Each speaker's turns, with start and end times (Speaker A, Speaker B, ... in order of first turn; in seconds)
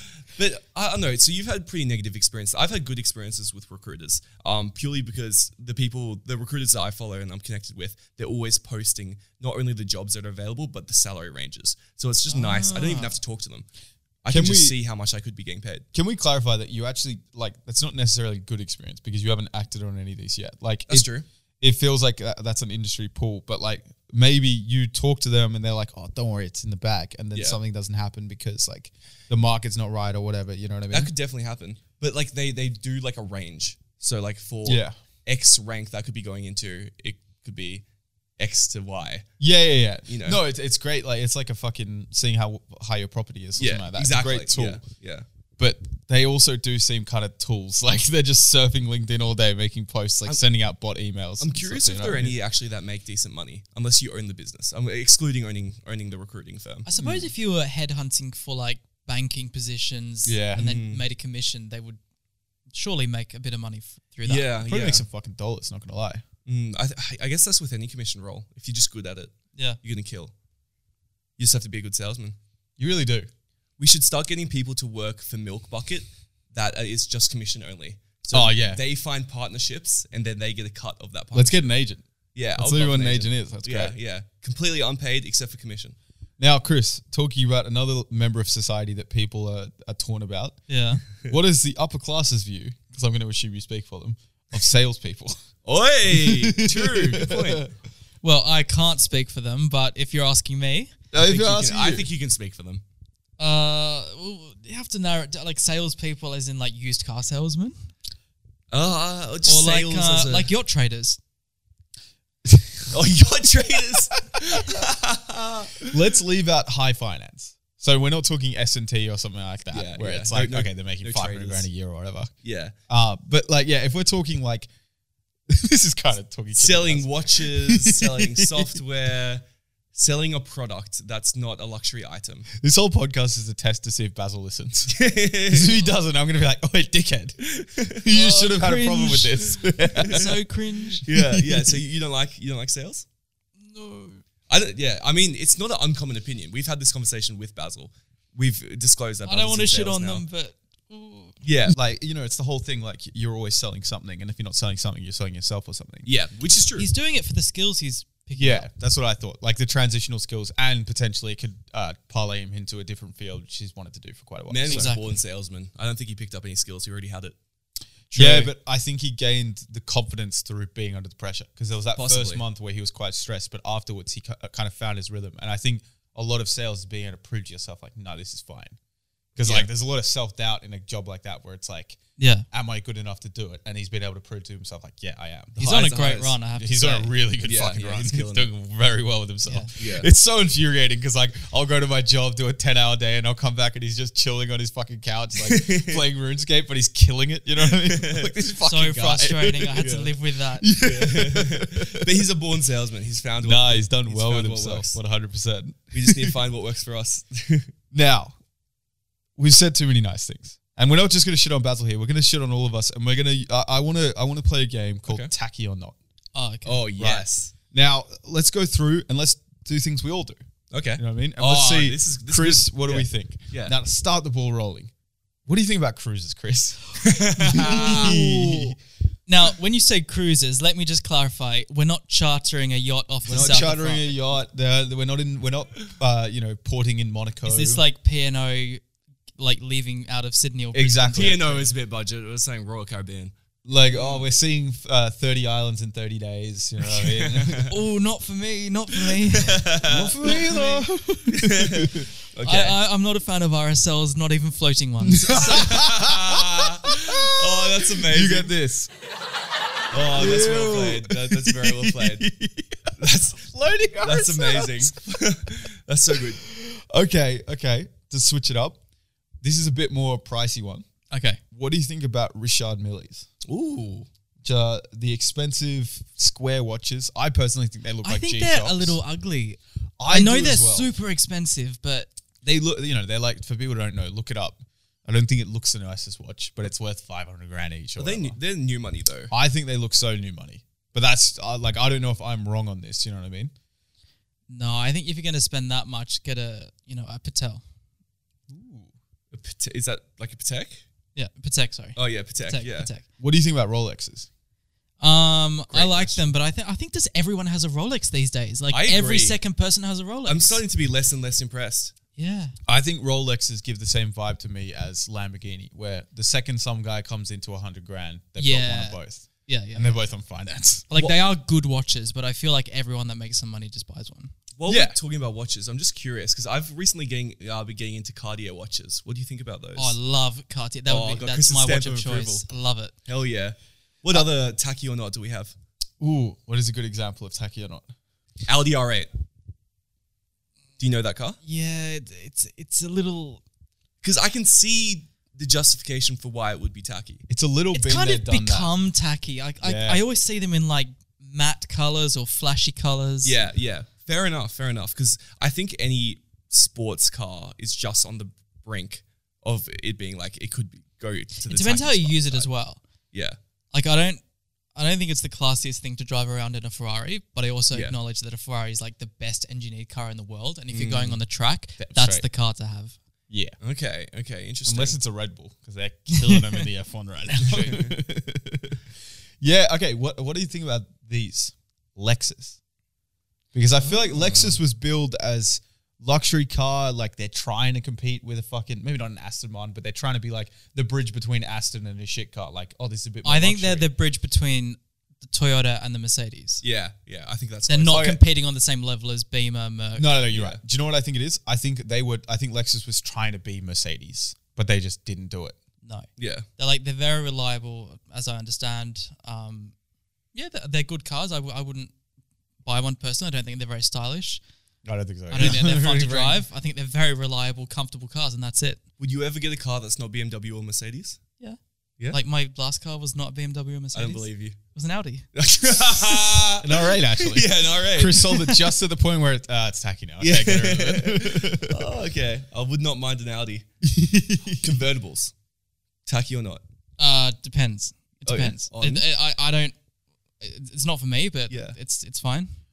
Speaker A: 0.3-13.7, 14.2-15.8, 20.9-21.2, 30.9-37.8, 38.4-39.2, 40.1-40.4, 43.6-45.2, 51.4-56.9, 60.5-61.0, 64.2-65.1, 66.5-70.3, 71.4-72.3, 73.8-81.6, 82.3-86.0, 95.6-97.7, 101.1-102.8, 108.7-110.5, 112.9-115.9, 119.7-121.7, 122.4-122.7, 126.5-129.4, 129.9-132.5, 134.9-135.9, 137.4-138.0, 140.1-140.3, 141.0-143.0, 144.5-150.2, 151.4-151.8, 156.0-156.9, 164.5-167.3, 171.9-172.4, 179.4-179.7, 185.6-186.4, 187.4-188.5, 189.8-190.1, 195.4-196.0, 197.6-198.3, 199.7-200.1, 200.8-205.0, 205.9-207.7, 216.6-217.5, 220.7-223.7, 227.0-228.2, 241.1-243.3, 243.9-244.2, 246.8-247.8, 248.9-250.4, 251.3-252.8, 255.3-258.5, 259.9-262.3, 263.0-263.4, 264.0-266.4, 273.4-274.1, 288.0-289.3, 299.3-300.8, 301.9-302.9, 305.7-306.2, 308.7-309.4, 310.2-311.9, 324.6-329.9, 330.9-332.4, 333.1-335.5, 338.4-339.1, 340.8-341.4, 344.0-347.2, 353.2-362.5, 363.1-363.4, 367.7-368.0, 370.7-371.2, 373.6-375.0, 377.5-378.0, 383.8-384.6, 396.6-398.1, 400.3-400.6, 406.2-406.4, 415.3-415.6, 419.0-421.2, 423.9-424.6, 425.3-428.6, 430.2-433.6, 434.6-435.3, 436.1-436.6, 438.2-439.0, 441.5-441.8
Speaker B: 12.3-13.2, 56.9-62.0, 62.7-64.5, 90.7-91.0, 98.2-100.9, 103.4-107.7, 109.5-111.2, 138.1-141.0, 143.6-144.2, 149.2-151.4, 156.8-158.7, 164.7-165.1, 168.1-168.5, 182.2-182.4, 185.6-187.1, 198.6-200.7, 216.3-216.9, 227.6-228.6, 229.3-234.2, 237.4-238.8, 239.4-241.5, 247.7-250.9, 252.4-255.7, 271.1-271.4, 278.0-282.1, 294.5-297.6, 301.1-303.0, 305.0-310.6, 312.1-312.5, 318.4-320.1, 320.9-324.3, 329.8-332.9, 341.4-343.4, 347.7-353.4, 361.5-362.8, 363.7-364.2, 364.7-372.9, 376.2-376.6, 393.2-396.6, 397.7-400.2, 405.8-409.7, 410.3-411.9, 412.6-414.4, 415.3-418.8, 422.1-425.2, 437.0-439.7, 440.4-442.5
Speaker C: 14.3-14.8, 15.9-31.1, 34.6-34.9, 39.4-44.8, 45.6-52.4, 57.0-57.3, 60.2-60.6, 64.7-66.2, 72.8-73.3, 78.3-78.8, 81.3-82.0, 82.5-83.9, 86.4-90.6, 91.2-95.4, 96.1-97.7, 101.1-102.1, 112.5-112.9, 113.9-114.7, 115.8-122.3, 122.9-124.7, 125.5-128.7, 132.5-137.4, 137.9-140.3, 141.0-141.8, 151.7-156.1, 158.4-164.9, 168.1-178.8, 179.3-182.0, 182.5-185.7, 186.6-199.9, 200.6-202.1, 203.4-206.3, 207.9-208.3, 209.4-215.9, 217.0-220.4, 221.0-224.9, 225.5-226.8, 227.4-228.7, 233.3-237.8, 240.7-241.7, 243.6-247.7, 249.9-252.1, 255.0-258.9, 260.1-265.0, 266.4-268.8, 269.4-270.8, 271.5-273.3, 274.4-279.0, 280.0-280.9, 282.4-288.4, 289.3-293.5, 298.5-298.9, 303.2-304.3, 312.7-320.9, 324.7-324.9, 336.0-337.9, 347.3-348.7, 349.6-350.0, 371.8-372.2, 373.3-373.6, 374.6-378.8, 379.4-382.6, 383.5-393.9, 397.9-398.2, 400.0-405.6, 414.8-416.4, 426.6-431.8, 433.8-434.7